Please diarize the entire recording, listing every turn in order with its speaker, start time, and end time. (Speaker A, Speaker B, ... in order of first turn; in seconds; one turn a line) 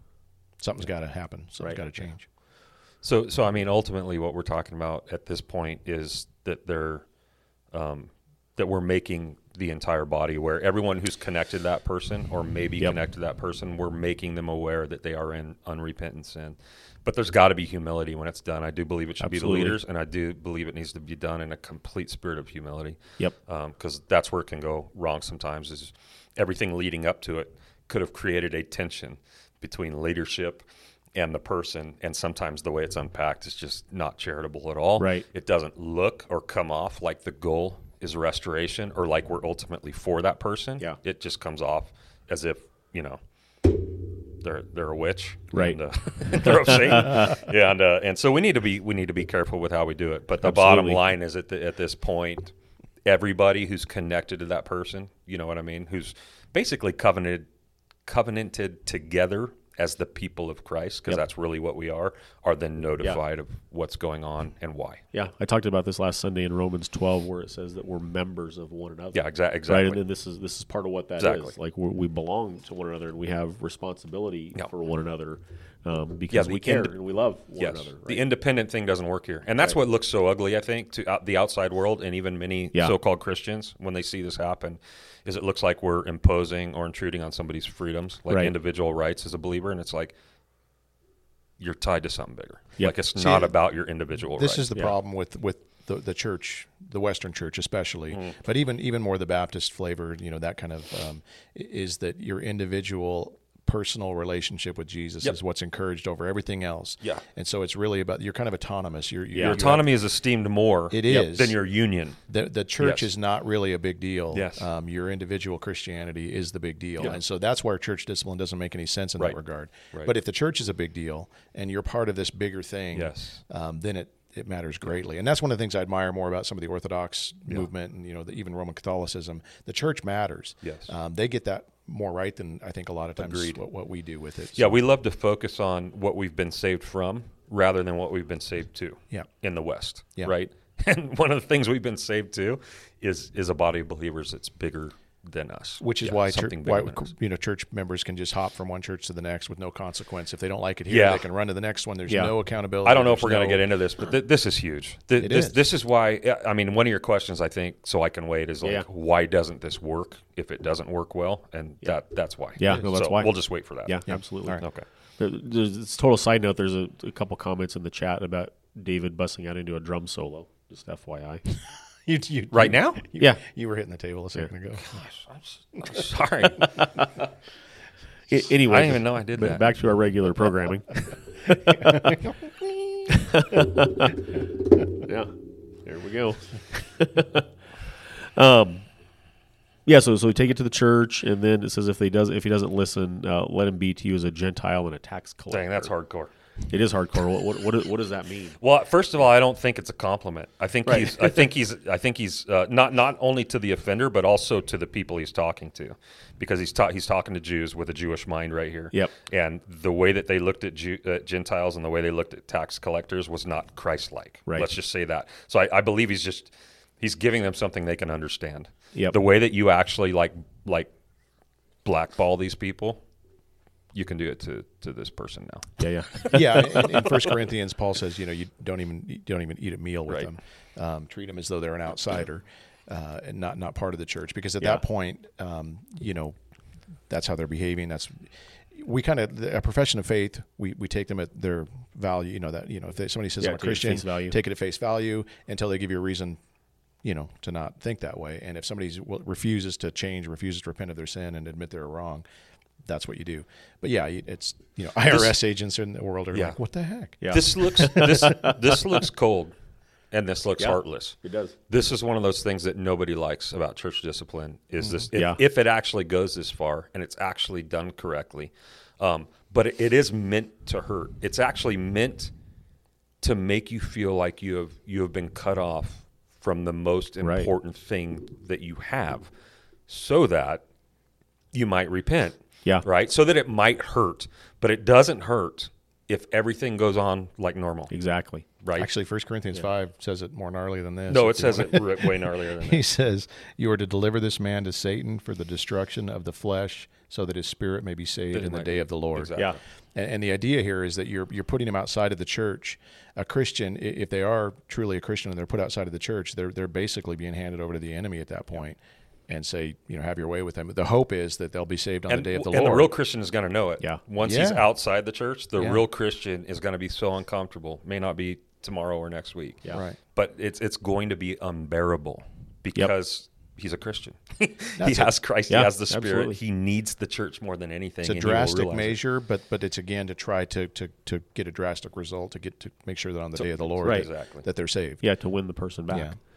Speaker A: 0.6-2.3
Speaker B: 3.0-7.0
Speaker B: 7.7-30.6
Speaker C: 19.2-19.8
Speaker B: 31.1-52.5
Speaker C: 35.0-35.2
Speaker C: 45.5-45.8
Speaker C: 46.4-47.3
Speaker C: 50.4-51.0
Speaker B: 53.0-57.5
Speaker B: 58.1-65.0
Speaker C: 65.1-78.2
Speaker B: 69.1-70.0
Speaker B: 71.2-71.5
Speaker B: 76.3-77.0
Speaker B: 77.6-90.1
Speaker B: 91.6-94.7
Speaker A: 93.2-93.5
Speaker A: 94.3-109.9
Speaker C: 109.3-109.6
Speaker B: 109.4-112.2
Speaker A: 110.9-111.6
Speaker A: 112.3-134.8
Speaker B: 112.8-113.1
Speaker B: 114.3-114.7
Speaker B: 122.9-123.4
Speaker B: 130.6-130.9
Speaker B: 133.2-133.6
Speaker B: 134.6-147.1
Speaker A: 145.8-153.7
Speaker B: 150.9-151.3
Speaker C: 152.1-152.3
Speaker B: 152.8-164.8
Speaker A: 155.2-155.6
Speaker C: 162.6-164.6
Speaker A: 164.1-164.6
Speaker C: 165.2-171.4
Speaker A: 172.1-175.0
Speaker B: 172.5-173.0
Speaker B: 174.8-177.1
Speaker A: 175.8-176.0
Speaker C: 178.3-182.2
Speaker B: 178.4-179.7
Speaker A: 181.7-182.7
Speaker C: 183.1-187.5
Speaker C: 188.1-188.9
Speaker C: 189.9-195.9
Speaker B: 195.5-196.3
Speaker C: 196.7-198.6
Speaker B: 198.6-220.9
Speaker C: 200.9-201.4
Speaker B: 221.8-223.0
Speaker B: 223.9-227.2
Speaker C: 225.8-226.9
Speaker A: 226.3-236.3
Speaker A: 237.1-246.4
Speaker C: 243.4-244.4
Speaker A: 247.0-252.2
Speaker A: 252.8-258.3
Speaker B: 255.1-255.4
Speaker C: 257.2-258.6
Speaker B: 257.3-259.5
Speaker B: 260.1-261.2
Speaker C: 260.6-261.6
Speaker B: 261.7-272.3
Speaker C: 265.1-265.4
Speaker B: 273.2-279.3
Speaker C: 277.2-277.5
Speaker B: 279.9-280.6
Speaker B: 281.5-287.9
Speaker C: 287.9-288.4
Speaker B: 288.6-288.9
Speaker A: 288.8-299.4
Speaker B: 291.1-292.8
Speaker B: 298.3-299.5
Speaker A: 299.9-312.9
Speaker B: 312.1-329.0
Speaker A: 314.2-314.7
Speaker A: 315.6-315.8
Speaker A: 324.8-325.1
Speaker C: 325.5-326.4
Speaker A: 328.0-335.0
Speaker B: 333.4-334.4
Speaker C: 333.8-334.1
Speaker C: 335.0-336.1
Speaker A: 335.9-336.2